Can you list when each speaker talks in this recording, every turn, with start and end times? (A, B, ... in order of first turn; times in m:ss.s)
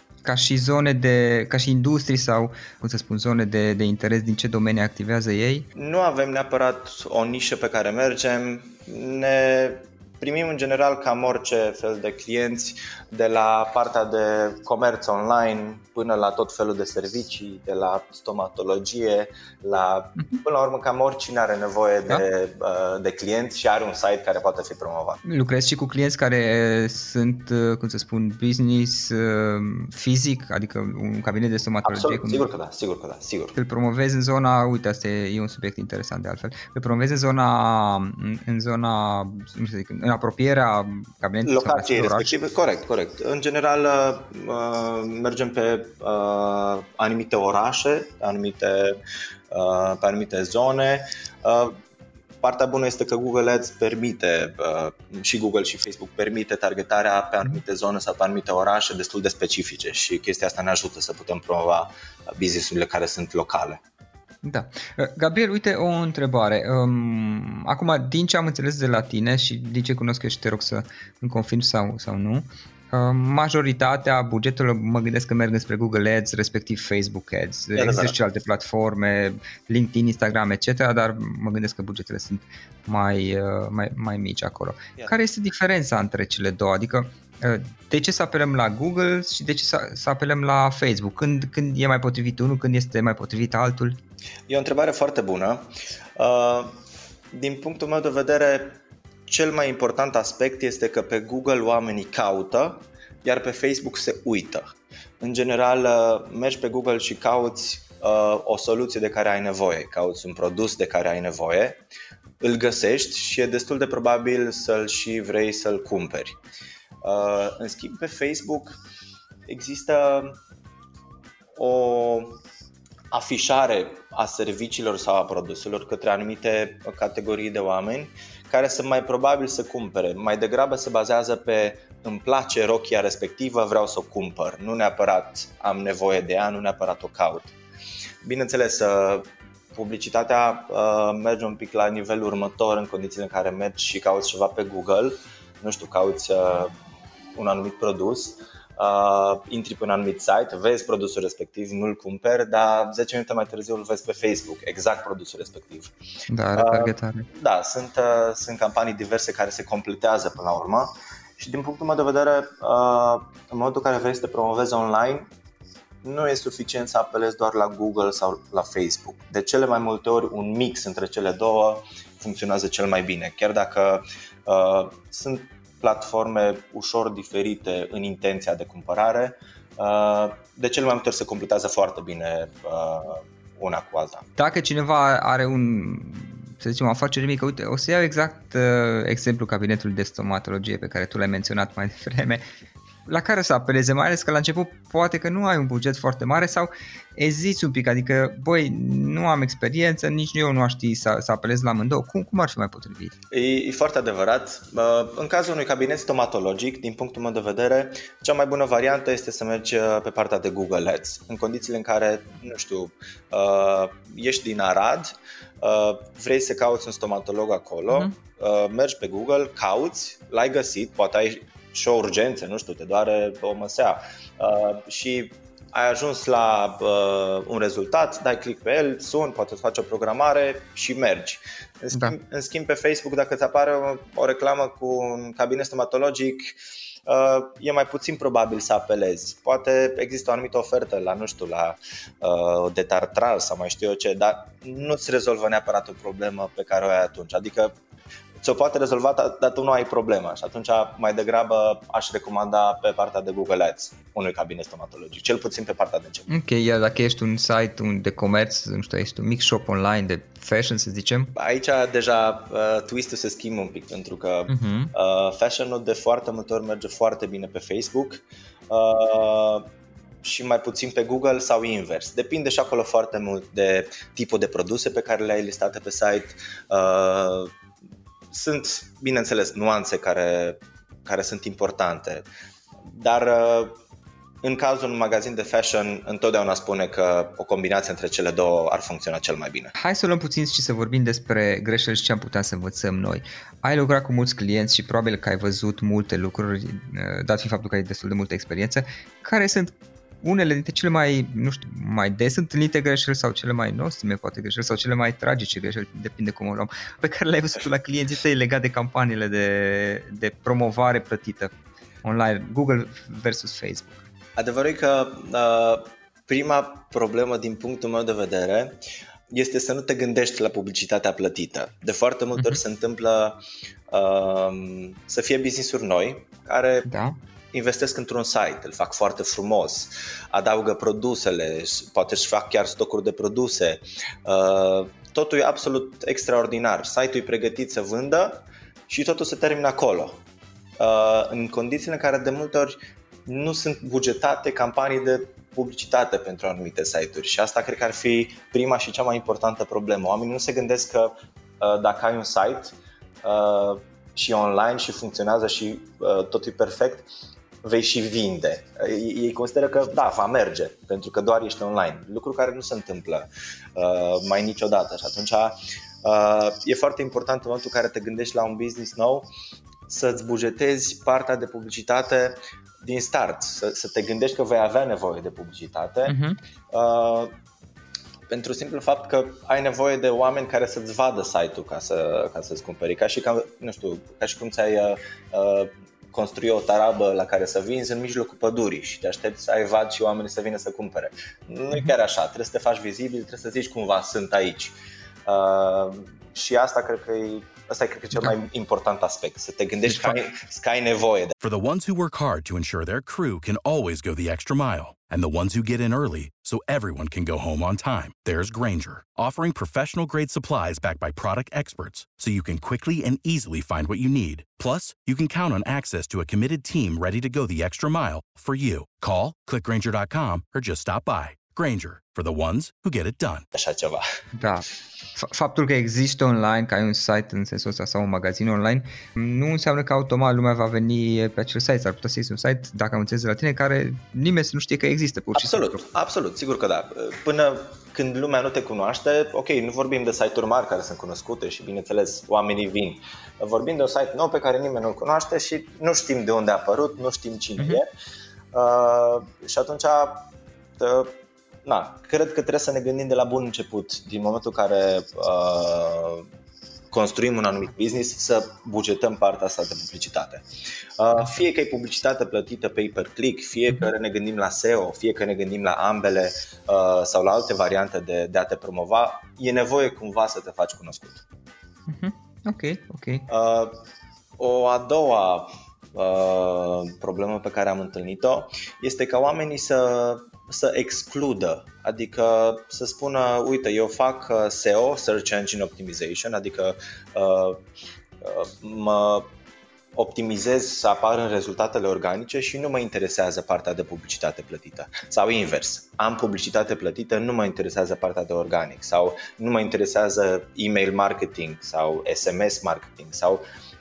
0:00.2-0:05.7 A
0:05.8-0:25.2 B
0:25.2-0:32.4 A
0:31.8-0:33.6 B
0:33.6-0:42.3 A
0:41.4-0:49.0 B
0:49.5-0:51.8 B
0:52.4-1:03.8 B
1:04.4-1:34.0 A
1:17.8-1:18.2 B
1:34.5-1:36.8 B
1:37.3-1:51.8 B
1:52.4-1:56.4 B
1:57.0-1:58.8 B
1:59.5-2:00.4 B
2:01.6-2:02.4 B
2:03.1-2:17.6 B
2:18.2-2:26.8 B
2:27.4-2:35.9 B
2:36.3-2:37.3 A
2:36.6-2:45.3 B
2:46.0-3:04.3 B
3:04.4-3:12.5 A
3:13.1-3:23.2 A
3:23.3-4:07.7 B
4:08.4-4:16.3 B
4:16.3-4:21.4 A
4:21.4-4:29.7 B
4:24.5-4:24.9 A
4:30.2-4:37.5 B
4:38.3-4:42.2 B
4:42.9-4:43.8 B
4:44.4-4:49.7 B
4:49.8-5:11.5 A
5:12.0-5:14.0 A
5:14.4-5:26.9 B
5:26.9-5:27.2 A
5:27.5-5:40.2 B
5:40.8-5:57.1 B
5:57.6-6:09.3 B
6:09.9-6:16.2 B
6:16.1-6:16.4 A
6:16.7-6:17.3 B
6:18.3-6:41.4 B
6:39.9-6:40.2 A
6:41.4-7:03.5 C
7:03.5-7:04.0 B
7:04.4-7:15.8 A
7:15.4-7:27.9 B
7:28.5-7:36.3 B
7:36.9-7:40.4 B
7:41.0-7:51.2 B
7:51.9-7:53.3 A
7:53.3-7:53.8 B
7:54.4-8:07.6 B
8:08.2-8:09.3 B
8:10.0-8:23.4 B